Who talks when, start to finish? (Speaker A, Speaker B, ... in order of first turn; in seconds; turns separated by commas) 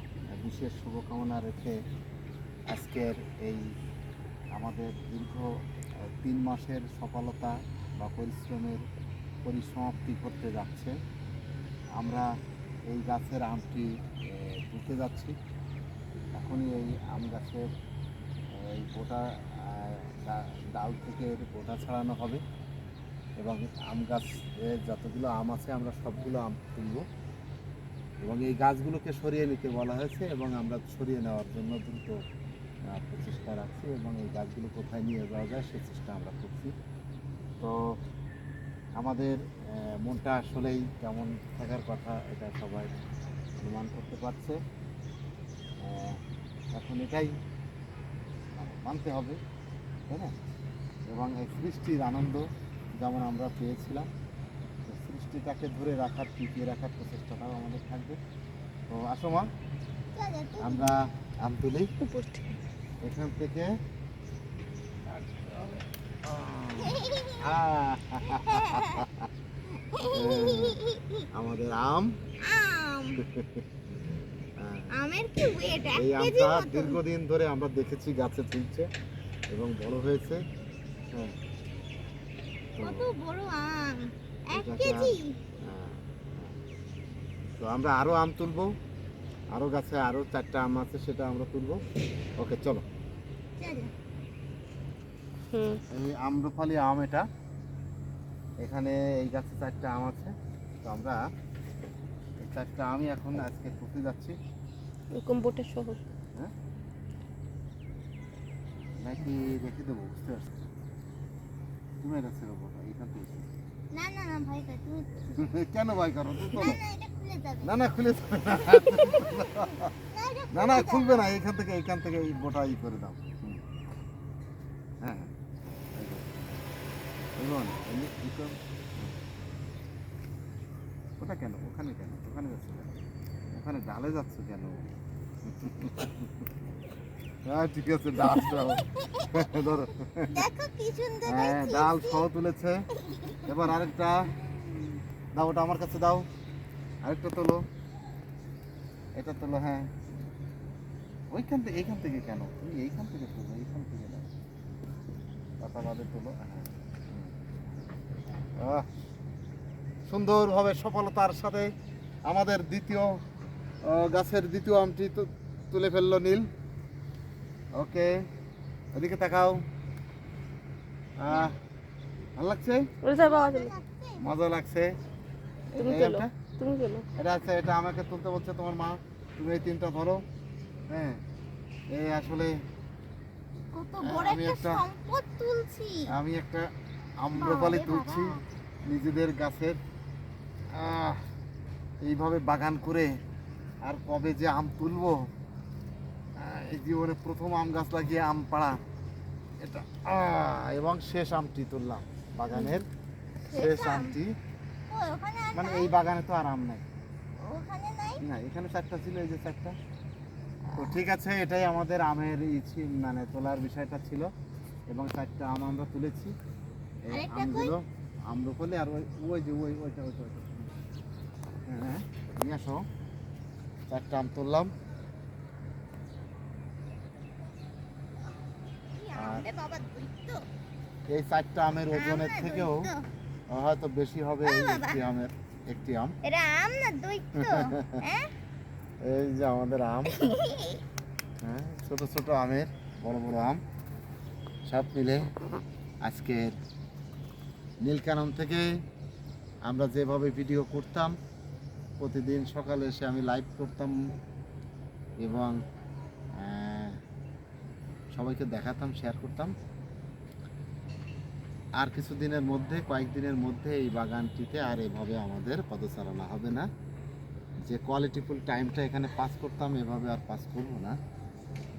Speaker A: 0.4-1.8, Speaker A: 2.7-3.6, Speaker A: 4.5-5.5, Speaker A: 6.2-8.8, Speaker A: 9.4-10.9, Speaker A: 12.0-12.3, Speaker A: 12.9-15.3, Speaker A: 16.4-17.7, Speaker A: 18.6-22.4, Speaker A: 23.4-27.1, Speaker A: 28.2-32.2, Speaker A: 32.9-36.7, Speaker A: 39.0-43.0, Speaker A: 43.6-44.6, Speaker A: 45.8-46.2, Speaker A: 46.7-47.3, Speaker A: 48.5-49.4, Speaker A: 51.1-52.5, Speaker A: 53.0-54.1, Speaker A: 54.9-58.2, Speaker A: 58.9-59.5, Speaker B: 60.1-60.9, Speaker A: 60.6-61.9, Speaker C: 62.0-62.6, Speaker A: 63.0-63.7, Speaker A: 65.1-69.3, Speaker B: 66.8-67.5, Speaker B: 68.2-69.0, Speaker B: 69.7-71.2, Speaker A: 70.1-70.8, Speaker A: 71.3-72.1, Speaker B: 72.4-73.2, Speaker A: 73.2-73.6, Speaker A: 74.6-74.9, Speaker B: 74.9-77.0, Speaker A: 76.0-78.9, Speaker A: 79.5-80.4, Speaker A: 82.8-83.1, Speaker B: 82.8-85.3, Speaker A: 84.5-85.1, Speaker A: 85.7-86.5, Speaker A: 87.6-88.7, Speaker A: 89.5-91.8, Speaker A: 92.4-92.8, Speaker B: 93.6-93.9, Speaker C: 95.5-95.8, Speaker A: 95.9-97.2, Speaker A: 98.6-101.2, Speaker A: 102.4-104.3, Speaker C: 105.1-106.1, Speaker A: 109.0-110.5, Speaker A: 112.0-113.5, Speaker B: 113.9-115.3, Speaker A: 115.4-116.8, Speaker B: 116.4-117.7, Speaker A: 117.6-119.9, Speaker B: 118.5-119.5, Speaker B: 120.1-121.3, Speaker A: 120.5-123.6, Speaker A: 125.0-125.3, Speaker A: 126.0-126.4, Speaker A: 127.4-129.2, Speaker A: 131.2-133.0, Speaker A: 133.5-134.9, Speaker A: 135.5-136.5, Speaker A: 137.5-140.5, Speaker B: 138.2-139.6, Speaker B: 140.3-142.2, Speaker A: 141.3-142.9, Speaker B: 143.1-143.5, Speaker A: 143.4-144.3, Speaker B: 144.6-145.0, Speaker A: 145.3-146.3, Speaker A: 147.0-147.6, Speaker A: 149.2-149.9, Speaker A: 151.3-154.3, Speaker A: 155.6-157.3, Speaker A: 158.6-158.9, Speaker A: 160.1-161.7, Speaker A: 162.3-163.2, Speaker A: 163.8-166.5, Speaker A: 167.8-168.2, Speaker A: 168.9-169.6, Speaker A: 171.2-171.6, Speaker A: 172.4-172.9, Speaker C: 173.0-173.7, Speaker B: 173.2-174.3, Speaker A: 174.2-174.9, Speaker A: 175.8-176.3, Speaker C: 175.8-177.1, Speaker A: 177.2-180.2, Speaker A: 180.9-181.2, Speaker A: 181.9-182.5, Speaker B: 183.7-186.1, Speaker A: 184.0-184.8, Speaker A: 186.1-186.7, Speaker A: 187.2-188.3, Speaker B: 187.4-188.4, Speaker A: 188.9-189.8, Speaker A: 190.7-191.2, Speaker A: 192.0-193.2, Speaker A: 193.8-195.3, Speaker A: 196.4-198.8, Speaker A: 199.6-202.9, Speaker B: 203.5-204.2, Speaker A: 203.5-204.3, Speaker B: 204.9-205.9, Speaker A: 205.5-206.8, Speaker B: 207.4-208.2, Speaker A: 208.2-209.8, Speaker A: 210.8-214.3, Speaker A: 214.9-216.3, Speaker A: 217.1-220.8, Speaker B: 217.1-217.8, Speaker A: 221.7-222.8, Speaker A: 223.9-224.7, Speaker B: 229.0-230.4, Speaker A: 229.2-229.5, Speaker A: 231.1-232.9, Speaker B: 231.9-233.0, Speaker A: 233.5-236.2, Speaker B: 234.4-235.0, Speaker B: 236.2-238.3, Speaker A: 237.4-238.0, Speaker A: 239.0-240.2, Speaker B: 240.1-240.8, Speaker A: 241.4-243.6, Speaker A: 244.7-245.3, Speaker A: 246.0-246.6, Speaker A: 247.8-248.7, Speaker A: 249.7-251.2, Speaker A: 252.0-253.9, Speaker A: 255.2-255.6, Speaker A: 256.4-257.0, Speaker A: 258.1-259.5, Speaker A: 261.8-266.7, Speaker A: 267.6-271.0